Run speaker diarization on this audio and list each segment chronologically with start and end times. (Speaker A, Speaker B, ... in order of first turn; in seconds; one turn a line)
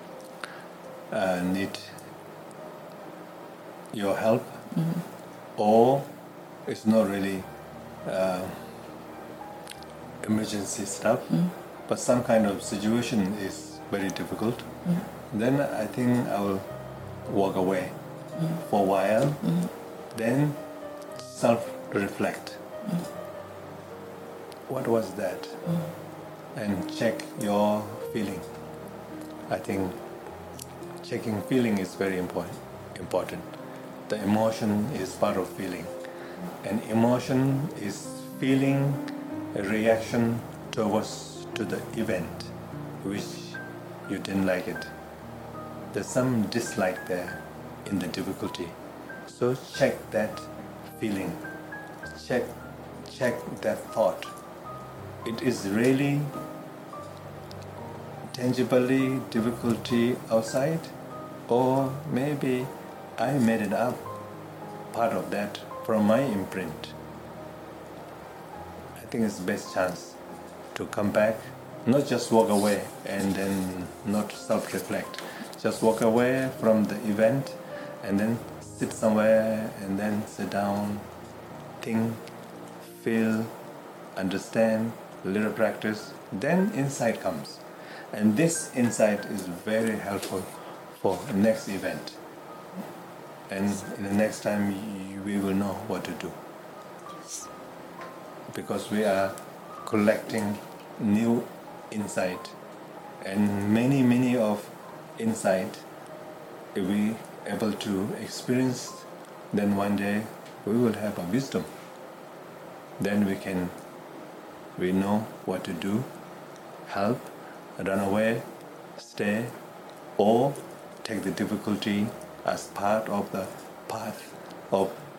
Speaker A: 1.1-1.9
Speaker A: 3.9-4.6
Speaker A: 5.5-6.1
Speaker A: 6.7-7.5
Speaker A: 8.0-8.7
Speaker A: 10.2-14.7
Speaker A: 15.3-16.7
Speaker A: 17.2-17.9
Speaker A: 18.5-20.6
Speaker A: 21.1-22.6
Speaker A: 24.7-25.6
Speaker A: 26.5-28.5
Speaker A: 29.5-30.0
Speaker A: 31.0-33.5
Speaker A: 34.1-35.9
Speaker A: 36.6-44.9
Speaker A: 45.9-48.8
Speaker A: 49.3-51.4
Speaker A: 52.1-52.5
Speaker A: 53.0-54.3
Speaker A: 55.2-56.3
Speaker A: 58.3-60.9
Speaker A: 61.5-64.1
Speaker A: 64.9-67.0
Speaker A: 69.0-70.2
Speaker A: 70.7-81.0
Speaker A: 81.8-82.2
Speaker A: 82.8-83.5
Speaker A: 84.1-92.2
Speaker A: 93.5-96.4
Speaker A: 98.5-102.5
Speaker A: 103.2-105.8
Speaker A: 106.7-111.7
Speaker A: 113.0-113.7
Speaker A: 114.8-116.1
Speaker A: 116.8-118.5
Speaker A: 119.0-119.5
Speaker A: 120.2-125.0